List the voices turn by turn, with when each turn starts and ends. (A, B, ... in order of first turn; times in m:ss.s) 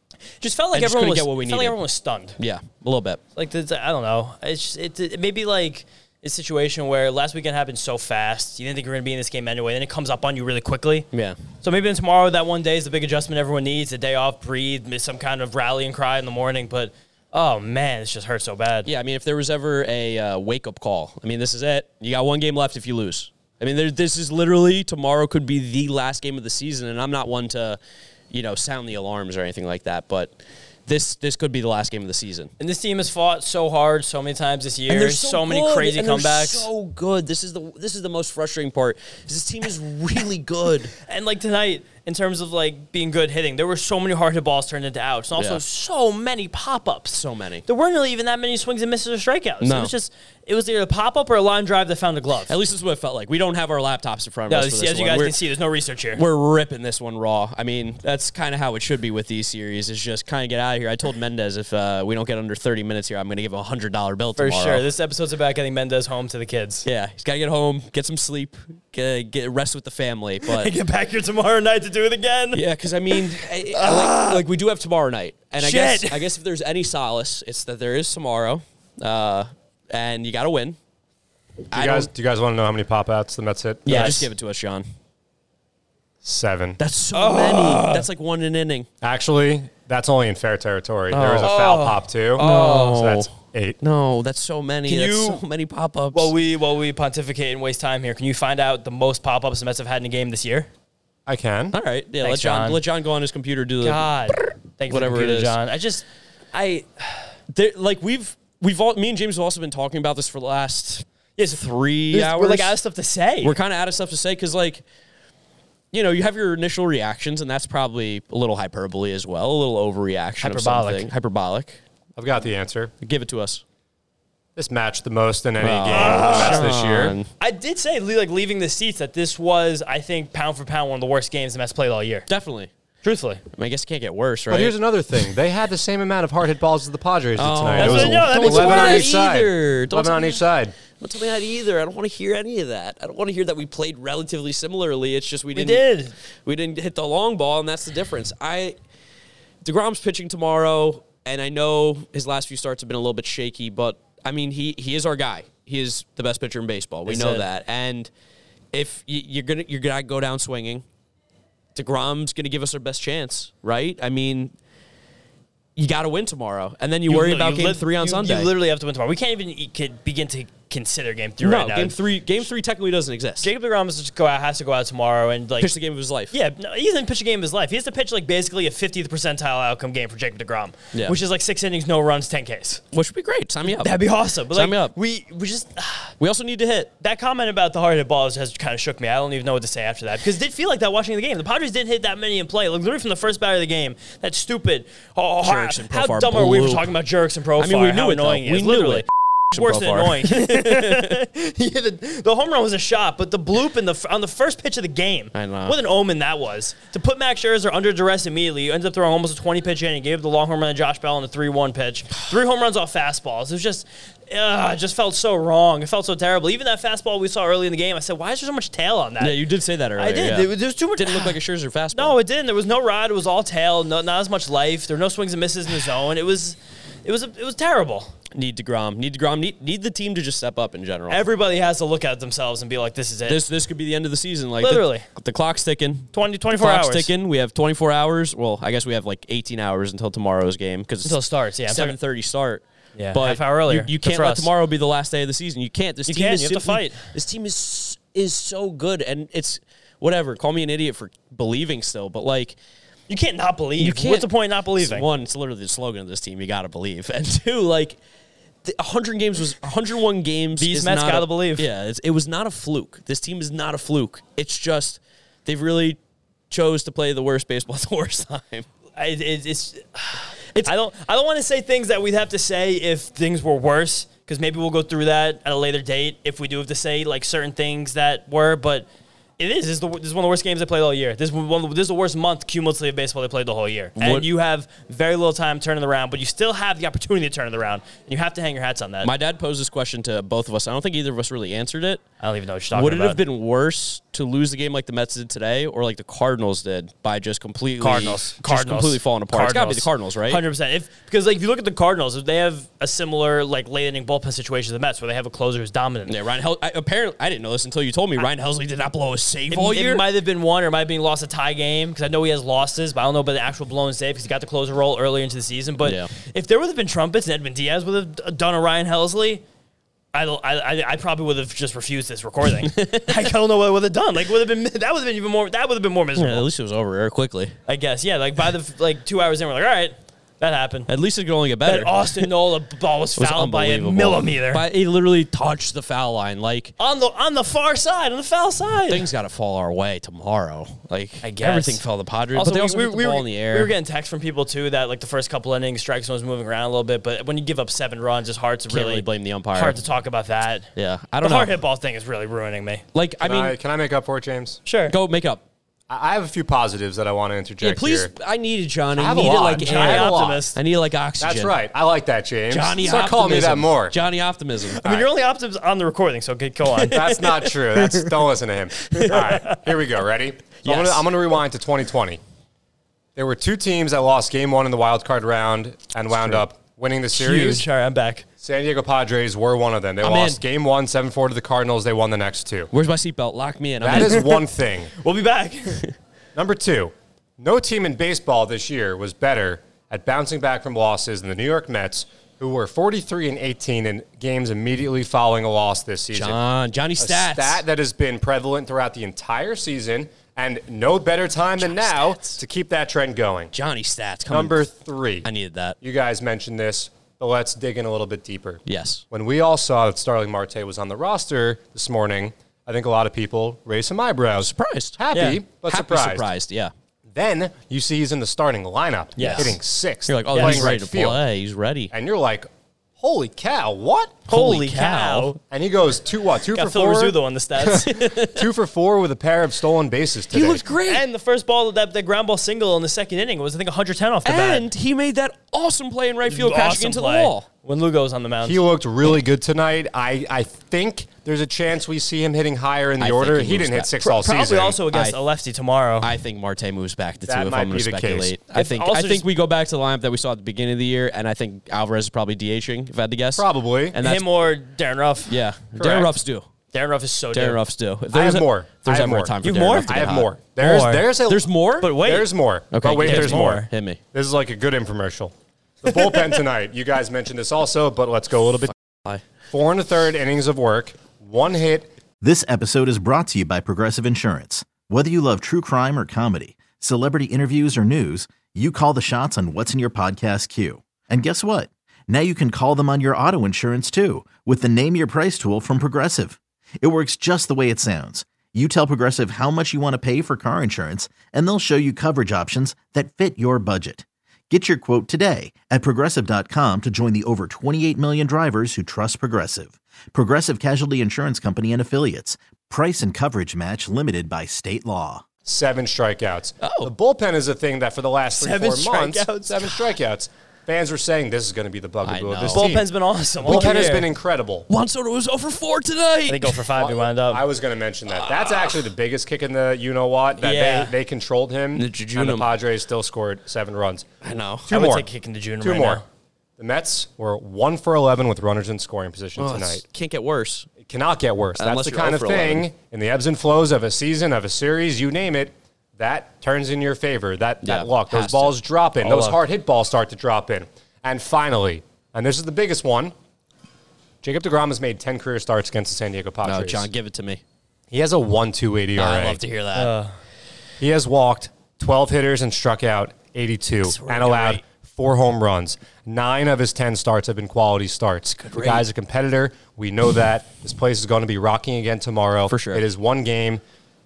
0:00.4-0:02.4 A
0:00.7-0:01.8 B
0:02.4-0:03.2 B
0:03.4-0:11.1 A
0:11.1-0:11.4 B
0:11.6-0:18.9 A
0:18.9-0:27.8 B
0:28.3-0:30.3 B
0:30.9-0:32.5 B
0:32.6-0:36.7 A
0:34.9-0:40.9 B
0:41.1-0:52.6 A
0:45.4-0:45.6 B
0:47.1-0:47.6 B
0:49.6-0:49.9 B
0:52.5-0:55.3 B
0:54.5-0:56.2 A
0:56.2-1:04.8 B
1:04.4-1:06.9 A
1:06.8-1:10.7 B
1:10.5-1:14.4 A
1:12.5-1:20.8 B
1:15.6-1:16.3 A
1:21.7-1:22.1 B
1:21.7-1:24.1 C
1:23.8-1:24.9 B
1:23.9-1:24.3 A
1:26.2-1:26.8 C
1:26.8-1:28.9 B
1:27.1-1:28.1 A
1:29.0-1:33.8 C
1:31.1-1:36.3 B
1:31.4-1:32.8 A
1:34.9-1:35.4 A
1:36.1-1:40.7 A
1:41.3-1:41.8 C
1:41.7-1:45.6 B
1:42.2-1:42.8 A
1:43.8-1:47.2 A
1:47.5-1:52.8 B
1:51.4-1:53.6 A
1:53.4-1:54.8 B
1:55.9-2:01.8 B
2:00.4-2:01.1 A
2:02.2-2:02.9 C
2:03.0-2:03.6 B
2:04.6-2:07.2 C
2:05.6-2:07.3 B
2:05.9-2:06.7 A
2:07.4-2:12.3 A
2:12.3-2:12.7 B
2:13.0-2:13.4 A
2:13.5-2:14.8 B
2:14.5-2:20.7 C
2:17.4-2:20.4 B
2:17.8-2:19.1 A
2:21.0-2:25.9 B
2:25.5-2:26.1 A
2:26.4-2:28.8 B
2:29.6-2:38.1 B
2:37.1-2:37.4 A
2:38.7-2:40.8 B
2:41.8-2:44.5 B
2:45.8-2:48.5 B
2:47.1-2:52.0 A
2:51.4-2:53.5 B
2:53.4-2:55.7 A
2:55.6-2:56.3 B
2:56.3-3:02.8 A
3:02.9-3:04.9 B
3:03.6-3:06.2 A
3:06.2-3:06.9 B
3:07.0-3:39.4 A
3:15.4-3:17.0 B
3:17.6-3:21.2 B
3:25.4-3:25.8 B
3:39.2-3:42.2 B
3:40.0-3:41.4 A
3:41.9-3:48.2 A
3:48.3-3:51.2 B
3:51.1-3:53.4 A
3:53.3-4:02.6 B
3:54.6-3:55.1 A
3:56.1-3:57.1 A
4:01.0-4:02.0 A
4:03.0-4:04.5 A
4:03.1-4:12.6 B
4:06.1-4:07.1 A
4:13.1-4:15.1 A
4:13.8-4:18.0 B
4:18.6-4:26.0 B
4:20.6-4:21.7 A
4:26.5-4:28.7 B
4:29.0-4:38.9 A
4:39.4-4:49.1 A
4:44.0-4:44.3 B
4:49.0-4:52.0 B
4:52.2-4:53.2 A
4:52.7-5:00.4 B
4:57.8-5:06.2 A
5:06.1-5:10.1 B
5:09.5-5:19.4 A
5:15.8-5:16.1 B
5:20.1-5:26.5 A
5:22.7-5:23.1 B
5:26.2-5:27.6 B
5:27.7-5:30.9 A
5:30.9-5:32.3 B
5:31.6-5:34.6 A
5:33.2-5:36.7 B
5:36.8-5:39.0 A
5:38.9-5:43.7 B
5:41.2-5:41.8 A
5:42.3-5:52.8 A
5:48.7-5:49.8 B
5:50.8-5:51.6 B
5:52.9-5:53.6 B
5:53.2-5:54.6 C
5:54.7-5:55.0 A
5:54.9-5:55.4 B
5:55.9-5:58.1 C
5:57.6-6:01.6 B
5:58.9-6:00.4 C
5:59.6-6:00.6 A
6:01.2-6:04.0 C
6:02.5-6:04.8 B
6:04.8-6:07.3 A
6:04.8-6:05.1 C
6:06.8-6:12.2 C
6:08.9-6:09.6 A
6:10.6-6:11.0 B
6:13.2-6:17.6 C
6:16.1-6:16.4 B
6:17.1-6:18.3 A
6:18.4-6:22.7 C
6:20.0-6:20.4 B
6:22.7-6:24.3 B
6:23.8-6:24.9 C
6:23.9-6:24.3 A
6:25.0-6:25.9 A
6:26.4-6:36.4 C
6:36.1-6:37.6 B
6:37.0-6:43.5 C
6:41.6-6:42.4 B
6:43.5-6:44.6 B
6:44.3-6:45.3 C
6:45.2-6:45.8 B
6:45.8-6:56.3 C
6:48.7-6:49.0 B
6:54.4-6:55.0 B
6:55.1-6:55.4 A
6:55.6-6:56.7 B
6:57.1-7:01.2 C
6:59.2-6:59.6 A
6:59.2-7:01.9 B
7:00.3-7:00.8 A
7:01.9-7:02.5 C
7:03.0-7:04.2 C
7:04.3-7:05.4 B
7:04.3-7:05.4 A
7:05.5-7:10.6 C
7:06.5-7:08.0 A
7:07.8-7:08.4 B
7:10.3-7:11.0 B
7:10.9-7:14.7 A
7:14.2-7:17.5 B
7:16.3-7:18.6 A
7:18.4-7:24.8 C
7:23.0-7:23.9 B
7:24.0-7:26.1 A
7:24.9-7:25.2 B
7:26.0-7:34.5 B
7:27.3-7:28.3 C
7:28.5-7:29.2 A
7:33.4-7:34.0 C
7:34.0-7:35.4 A
7:35.3-7:36.5 B
7:36.7-7:37.6 A
7:37.3-7:40.3 B
7:38.1-7:39.3 C
7:39.4-7:40.0 A
7:39.9-7:48.7 C
7:40.6-7:41.1 A
7:41.3-7:41.9 B
7:41.8-7:42.3 A
7:42.7-7:44.0 B
7:43.0-7:43.7 A
7:49.5-7:51.9 C
7:52.2-8:25.2 D
8:25.4-8:32.9 C
8:26.6-8:26.9 B
8:28.3-8:29.8 A
8:32.0-8:32.7 B
8:32.5-8:34.1 A
8:33.4-8:34.7 C
8:33.5-8:33.9 B
8:34.7-8:36.6 B
8:36.3-8:37.4 A
8:36.8-8:44.1 C
8:38.1-8:38.8 B
8:40.4-8:40.9 A
8:41.8-8:42.5 B
8:44.2-8:44.7 B
8:44.7-8:45.1 C
8:44.7-8:46.0 A
8:45.6-8:46.0 C
8:46.6-8:49.8 C
8:49.4-8:50.7 B
8:50.8-9:03.1 C
8:51.6-8:52.7 B
8:57.6-8:58.6 B
8:59.0-8:59.4 A
9:04.2-9:06.9 C
9:06.4-9:07.4 B
9:07.9-9:09.4 C
9:09.0-9:09.9 B
9:09.8-9:10.1 A
9:10.8-9:23.6 C
9:13.8-9:14.6 B
9:18.4-9:18.8 B
9:22.5-9:22.8 B